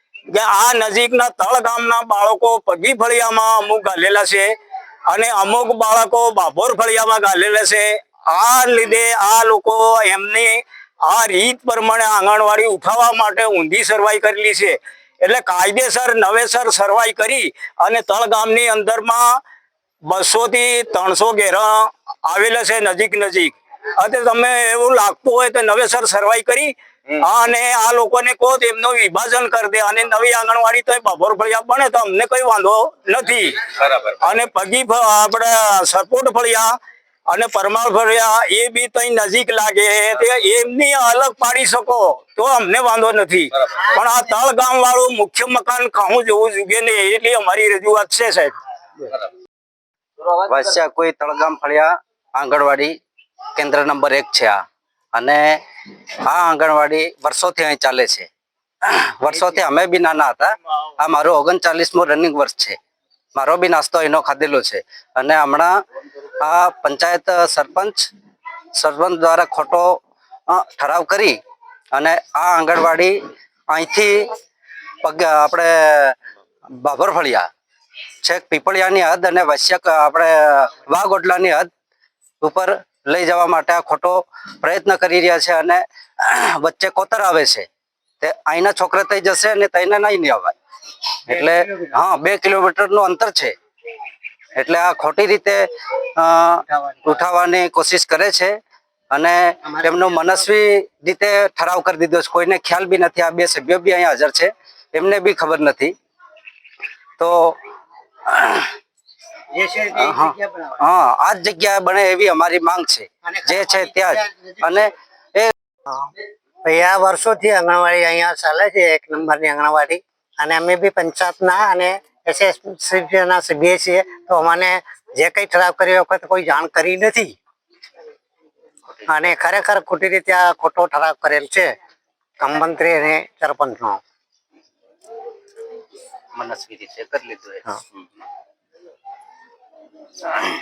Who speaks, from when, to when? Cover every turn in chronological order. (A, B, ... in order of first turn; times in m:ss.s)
0:00.3-0:04.5 A
0:05.1-0:19.2 A
0:20.1-0:21.7 A
0:22.2-0:26.7 A
0:27.2-0:36.7 A
0:37.3-0:48.5 A
0:50.3-0:53.0 B
0:53.5-0:54.6 B
0:55.1-0:55.6 B
0:56.2-0:58.3 B
0:58.8-1:02.8 B
1:03.3-1:05.7 B
1:06.4-1:08.1 B
1:08.7-1:11.4 B
1:11.9-1:13.1 B
1:13.7-1:14.4 B
1:15.0-1:16.2 B
1:16.7-1:17.5 B
1:18.2-1:21.7 B
1:22.4-1:27.6 B
1:28.2-1:30.5 B
1:31.2-1:33.5 B
1:31.4-1:31.9 C
1:34.6-1:38.6 B
1:36.7-1:37.2 C
1:39.1-1:45.9 B
1:47.2-1:47.6 B
1:48.3-1:48.7 B
1:49.5-1:50.8 C
1:49.9-1:55.5 B
1:53.2-1:54.8 C
1:56.6-2:07.3 C
2:09.1-2:11.7 C
2:12.4-2:14.0 C
2:16.3-2:17.8 B